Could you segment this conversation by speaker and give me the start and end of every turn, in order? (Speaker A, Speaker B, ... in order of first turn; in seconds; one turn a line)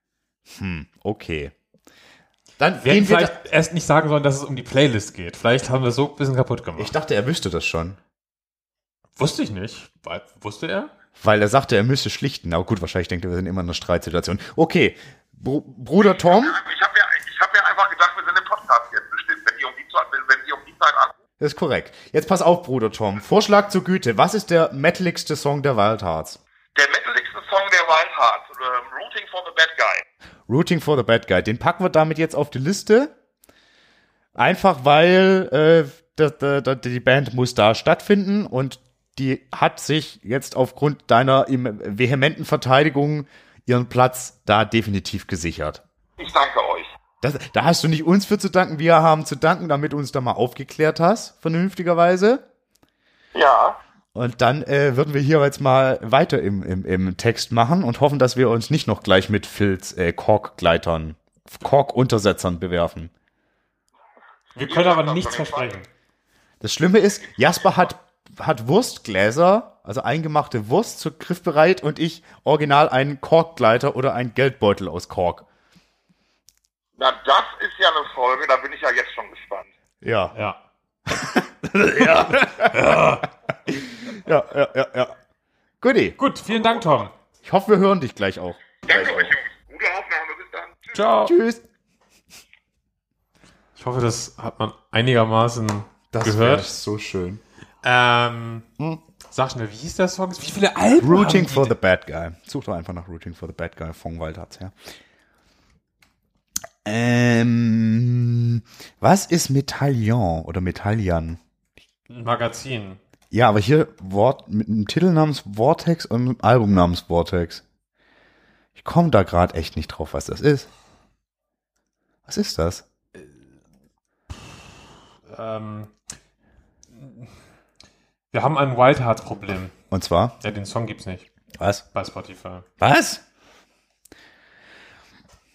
Speaker A: 0.5-1.5
Speaker A: 2.6-3.3
Speaker B: 2.8-6.9
Speaker A: 6.8-8.0
Speaker B: 9.2-10.9
Speaker A: 11.2-16.6
Speaker C: 16.1-21.1
Speaker A: 21.4-26.4
Speaker C: 26.7-30.0
Speaker A: 30.5-33.1
Speaker A: 34.3-45.8
Speaker C: 46.2-46.9
Speaker A: 47.2-52.4
Speaker C: 53.3-53.8
Speaker A: 54.1-63.1
Speaker B: 64.5-65.9
Speaker C: 64.6-65.7
Speaker A: 66.6-75.4
Speaker C: 77.0-79.7
Speaker A: 80.0-80.3
Speaker B: 80.3-80.6
Speaker A: 81.1-83.1
Speaker B: 82.6-83.2
Speaker A: 83.7-85.1
Speaker A: 85.8-86.2
Speaker B: 86.2-87.1
Speaker A: 87.4-89.3
Speaker C: 88.8-91.0
Speaker B: 90.9-91.3
Speaker A: 91.2-91.6
Speaker B: 93.8-96.7
Speaker A: 96.1-97.4
Speaker B: 97.8-98.6
Speaker B: 99.3-101.7
Speaker A: 101.0-104.7
Speaker A: 106.8-111.4
Speaker B: 112.1-113.0
Speaker A: 113.3-117.6
Speaker A: 118.8-120.7
Speaker A: 122.3-122.8
Speaker B: 125.3-125.9
Speaker B: 127.0-127.3
Speaker B: 128.3-129.7
Speaker A: 129.9-130.3
Speaker B: 130.4-131.3
Speaker A: 131.6-131.8
Speaker B: 131.9-132.6
Speaker A: 132.8-133.2